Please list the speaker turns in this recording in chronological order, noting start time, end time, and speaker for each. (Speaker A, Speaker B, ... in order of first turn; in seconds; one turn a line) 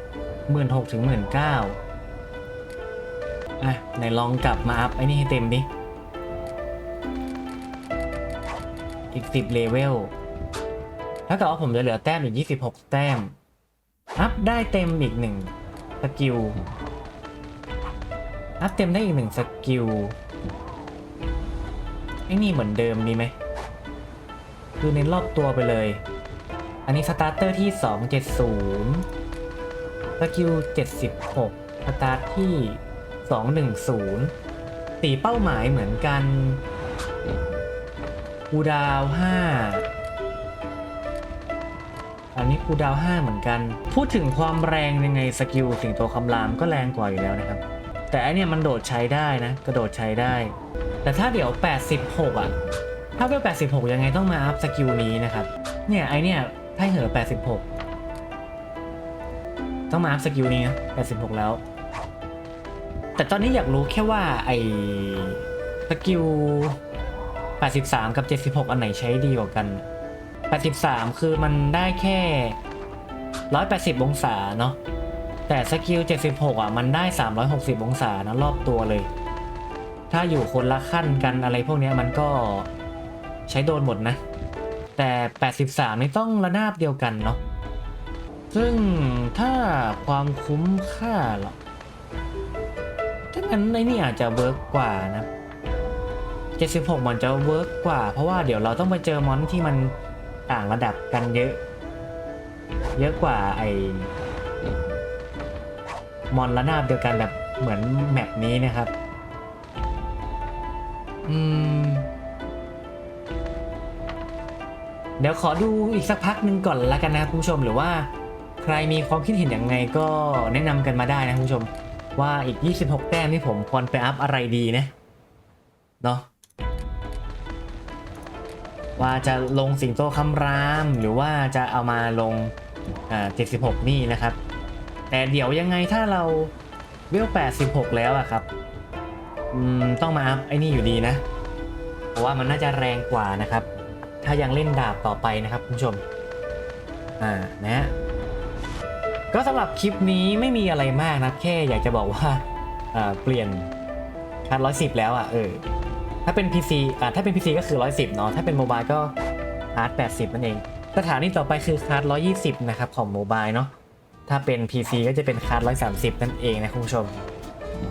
Speaker A: 0.5-1.8
Speaker A: 3.6-5.7
Speaker A: 9.1-10.1
Speaker A: 11.3-13.3
Speaker A: 14.2-16.6
Speaker A: 18.6-20.1
Speaker A: 22.3-23.3
Speaker A: 24.8-26.0
Speaker A: 26.9-29.0
Speaker A: 30.2-34.3
Speaker A: 35.0-36.6
Speaker A: 38.5-39.9
Speaker A: 42.3-52.5
Speaker A: 53.2-57.6
Speaker A: 59.9-61.6
Speaker A: 63.1-66.8
Speaker A: 67.6-69.8
Speaker A: 70.5-72.6
Speaker A: 73.5-74.8
Speaker A: 75.5-79.1
Speaker A: 80.1-82.7
Speaker A: 83.5-84.2
Speaker A: 85.0-87.4
Speaker A: 88.5-91.6
Speaker A: 93.3-95.3
Speaker A: 96.5-99.9
Speaker A: 100.5-101.6
Speaker A: 102.9-104.1
Speaker A: 106.3-108.9
Speaker A: 111.2-112.1
Speaker A: 115.2-124.9
Speaker A: 126.0-126.3
Speaker A: 129.0-132.5
Speaker A: 133.1-134.4
Speaker A: 135.1-136.5
Speaker A: 137.1-138.5
Speaker A: 139.5-141.2
Speaker A: 142.1-143.7
Speaker A: 144.2-146.0
Speaker A: 147.2-147.9
Speaker A: 149.3-153.7
Speaker A: 154.4-155.6
Speaker A: 156.2-159.1
Speaker A: 159.7-163.7
Speaker A: 164.3-167.2